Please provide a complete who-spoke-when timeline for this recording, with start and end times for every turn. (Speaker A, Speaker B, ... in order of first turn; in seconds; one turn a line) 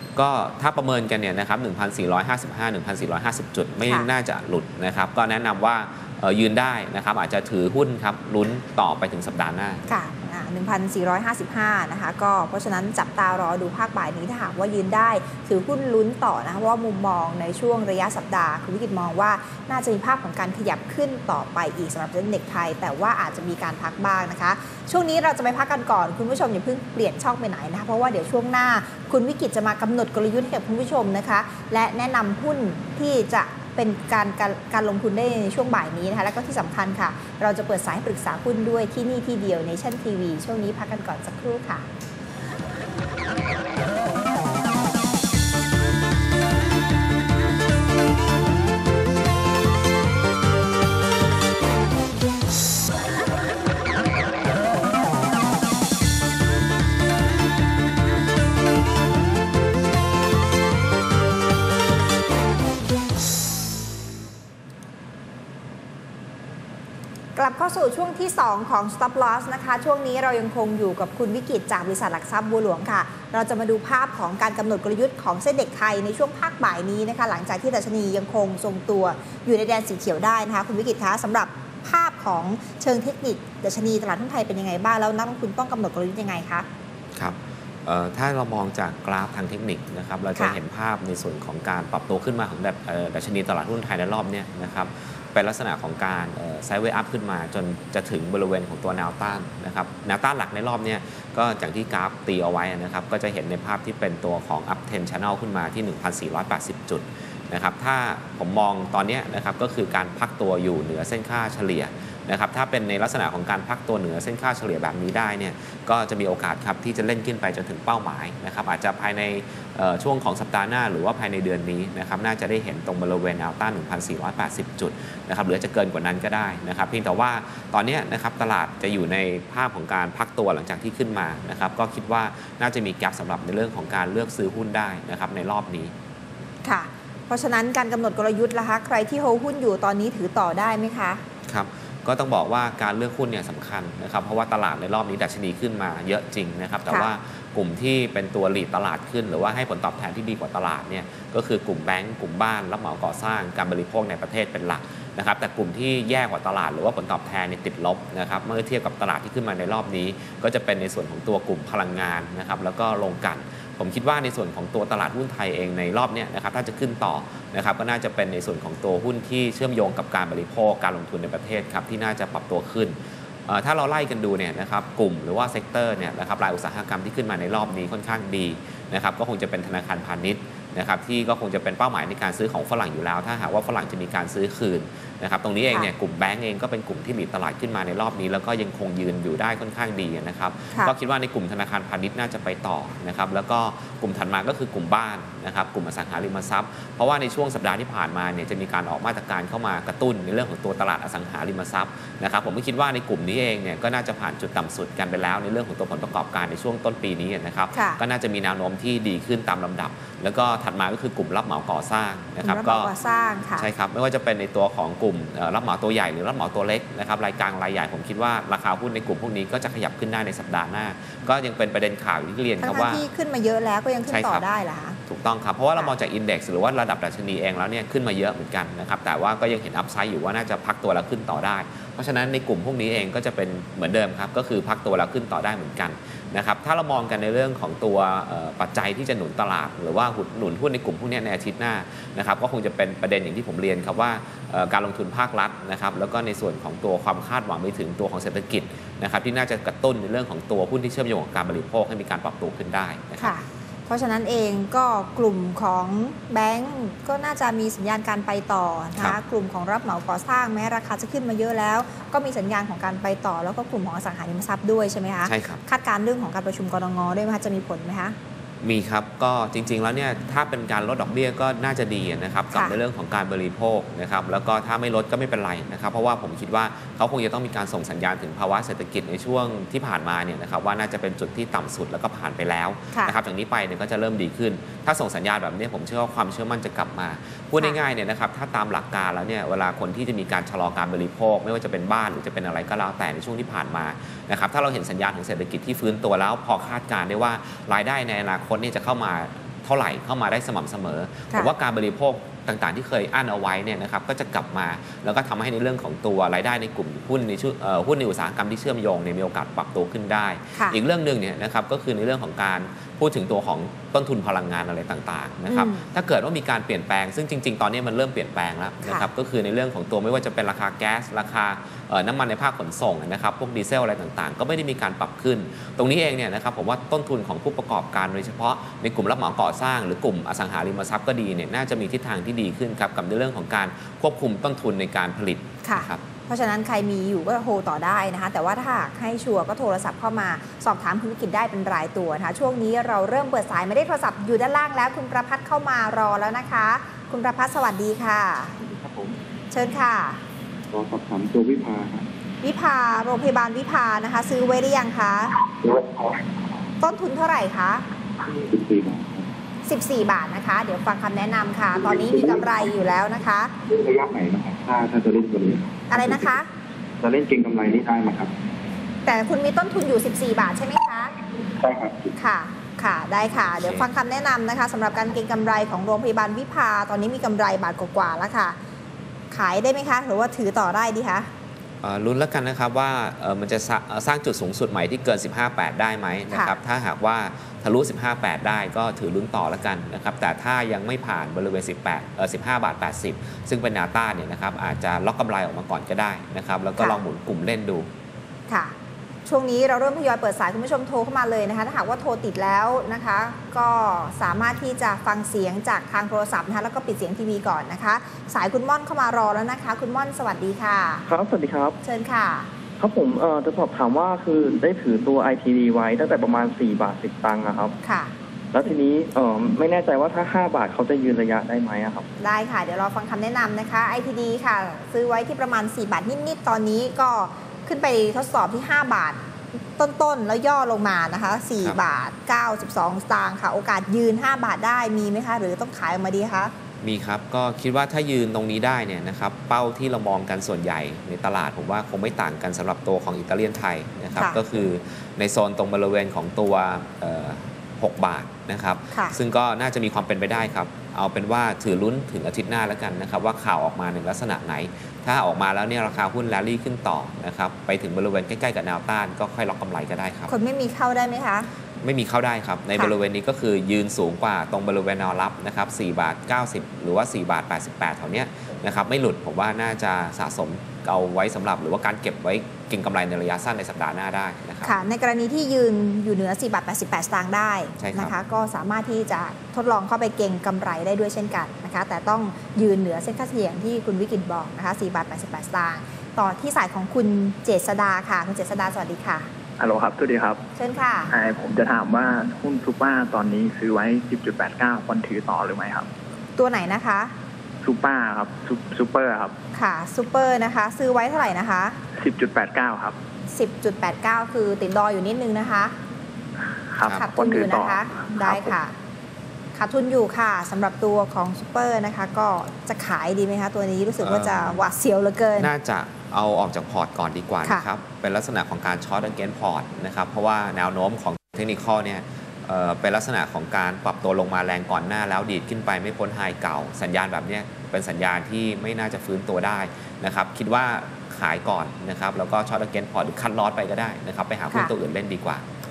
Speaker A: 0.2-9.8
Speaker B: 9.9-41.9
Speaker B: 67.3-86.7
Speaker A: 87.2-135.9
Speaker B: 136.6-141.2
Speaker A: 141.5-173.0
Speaker A: 173.5-212.9
Speaker B: 207.7-208.0
Speaker B: 212.4-213.7
Speaker A: 213.6-223.0
Speaker B: 222.6-225.0
Speaker A: 224.1-224.5
Speaker A: 225.1-253.3
Speaker B: 253.2-268.2
Speaker A: 265.2-265.6
Speaker A: 268.6-336.0
Speaker B: 272.5-272.8
Speaker B: 315.5-315.9
Speaker B: 335.6-348.5
Speaker C: 348.6-349.1
Speaker B: 349.5-350.2
Speaker C: 350.7-352.1
Speaker B: 352.4-355.4
Speaker C: 355.6-356.1
Speaker B: 356.8-357.8
Speaker C: 358.3-359.3
Speaker B: 359.6-363.5
Speaker C: 361.8-362.7
Speaker C: 363.7-366.3
Speaker B: 365.9-366.5
Speaker C: 367.0-368.3
Speaker B: 369.1-371.1
Speaker C: 371.6-372.1
Speaker B: 372.2-378.6
Speaker A: 373.6-373.9
Speaker B: 379.3-381.3
Speaker A: 381.8-397.9
Speaker B: 386.3-386.6
Speaker B: 398.5-398.7
Speaker B: 399.3-411.1
Speaker D: 411.1-411.8
Speaker B: 411.8-412.5
Speaker D: 412.8-417.8
Speaker B: 417.8-418.1
Speaker D: 418.5-422.1
Speaker B: 422.2-429.2
Speaker B: 429.8-436.5
Speaker A: 436.8-460.3
Speaker B: 460.3-461.5
Speaker A: 461.8-474.7
Speaker B: 474.6-489.3
Speaker A: 477.8-478.1
Speaker E: 489.6-490.4
Speaker B: 490.6-491.1
Speaker E: 491.2-495.9
Speaker B: 496.4-497.1
Speaker E: 497.6-499.3
Speaker B: 499.5-501.8
Speaker E: 502.0-502.9
Speaker B: 503.3-505.7
Speaker A: 506.9-507.1
Speaker B: 506.9-508.7
Speaker B: 509.6-515.5
Speaker A: 514.0-514.7
Speaker A: 515.4-535.4